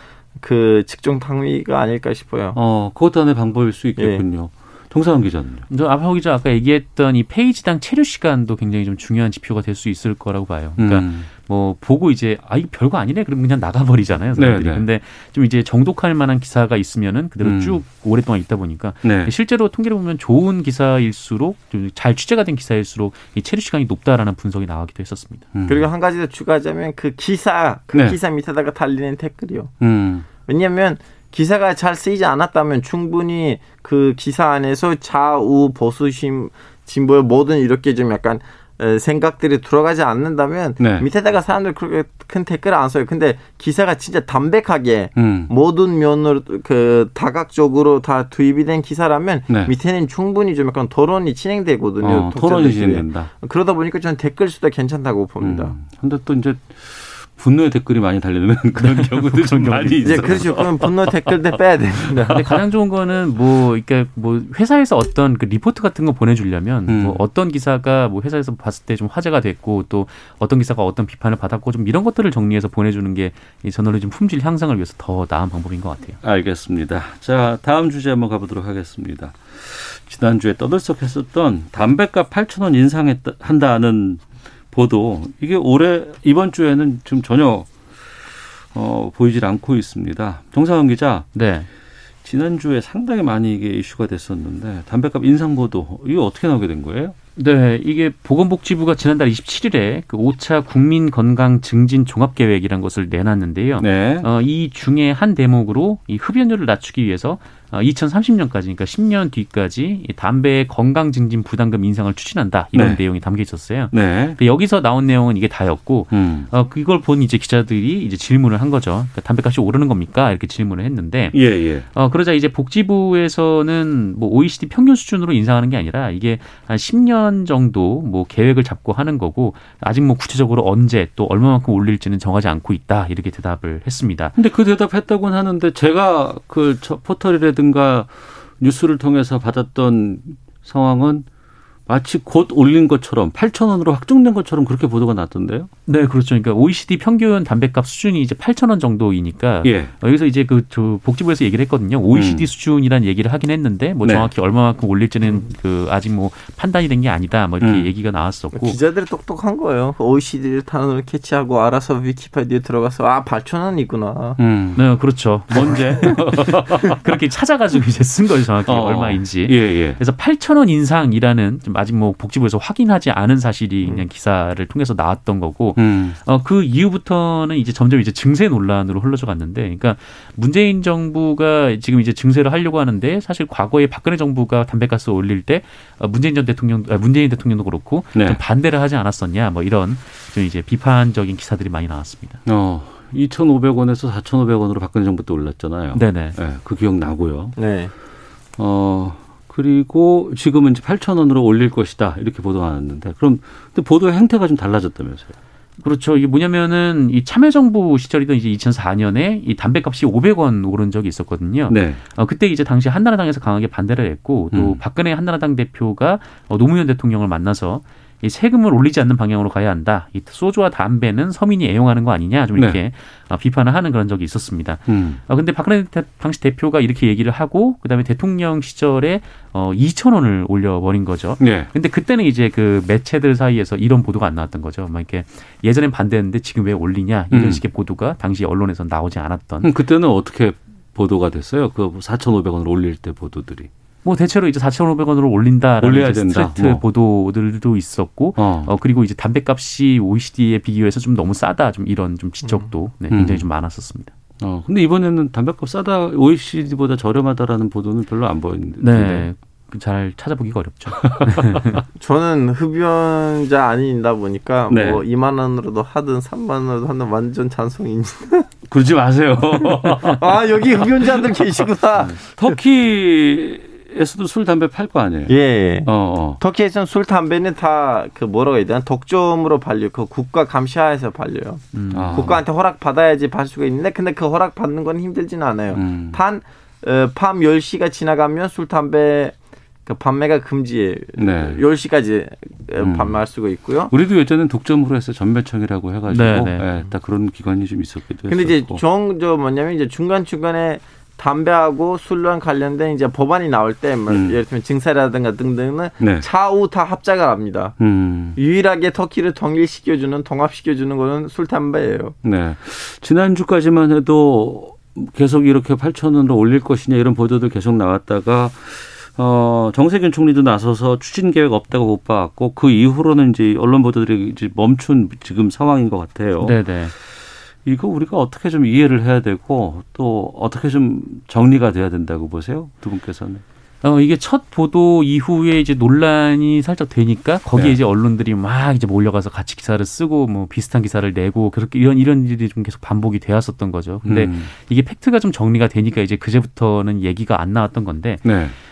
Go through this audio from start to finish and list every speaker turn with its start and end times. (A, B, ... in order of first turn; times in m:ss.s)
0:00.4-0:02.6 A
0:02.5-0:05.6 B
0:04.0-0:04.2 A
0:05.7-0:25.4 C
0:10.8-0:11.3 B
0:14.4-0:14.8 B
0:17.4-0:17.8 B
0:19.0-0:19.3 B
0:25.5-0:25.9 B
0:25.7-0:29.7 A
0:29.8-0:30.3 B
0:30.4-0:55.7 A
0:40.8-0:41.1 B
0:45.2-0:45.5 B
0:52.0-0:53.3 B
0:55.4-1:01.3 B
0:58.8-1:00.4 C
1:00.0-1:02.5 A
1:02.0-1:02.6 B
1:02.3-1:16.2 C
1:06.9-1:07.2 B
1:16.2-1:28.1 B
1:28.7-1:31.3 B
1:31.3-1:31.7 C
1:32.2-1:37.1 B
1:37.4-2:01.4 C
1:43.8-1:44.3 B
1:52.7-1:53.0 B
1:53.9-1:54.4 B
1:56.1-1:56.5 B
2:01.3-2:01.9 B
2:01.9-2:14.3 C
2:14.4-2:21.2 B
2:21.9-2:25.7 B
2:25.9-2:38.8 C
2:29.6-2:29.9 B
2:32.1-2:32.5 B
2:34.0-2:34.3 B
2:37.6-2:37.9 B
2:38.5-2:44.4 A
2:44.4-2:44.8 B
2:44.8-3:12.4 C
2:45.5-2:47.0 B
2:48.7-2:50.0 B
2:55.8-2:56.2 B
3:08.1-3:08.4 B
3:12.4-3:17.6 B
3:15.9-3:16.4 C
3:17.6-3:17.9 A
3:18.6-3:25.3 B
3:25.8-3:59.7 C
3:31.7-3:32.0 B
3:34.5-3:34.8 B
3:44.9-3:45.2 B
3:51.4-3:51.7 B
3:57.3-3:57.6 B
3:59.6-4:03.7 B
4:04.0-4:14.1 C
4:05.8-4:06.8 B
4:08.4-4:08.7 B
4:13.1-4:13.4 B
4:14.4-4:19.3 B
4:18.8-4:21.8 C
4:21.0-4:21.8 B
4:22.0-4:28.5 A
4:24.7-4:25.0 B
4:28.7-4:30.8 B
4:29.6-4:32.2 A
4:32.0-4:36.4 B
4:35.3-4:53.9 A
4:41.7-4:42.2 C
4:41.9-4:42.4 B
4:45.7-4:46.2 B
4:51.2-4:51.6 B
4:52.8-4:53.2 B
4:53.9-4:58.8 B
4:56.1-4:56.6 C
4:58.3-5:07.7 A
5:04.1-5:04.4 B
5:06.0-5:06.2 B
5:07.8-5:08.4 B
5:08.4-5:12.1 A
5:12.2-5:33.4 B
5:26.4-5:26.9 C
5:33.8-5:48.3 C
5:44.0-5:44.5 B
5:48.2-5:48.5 B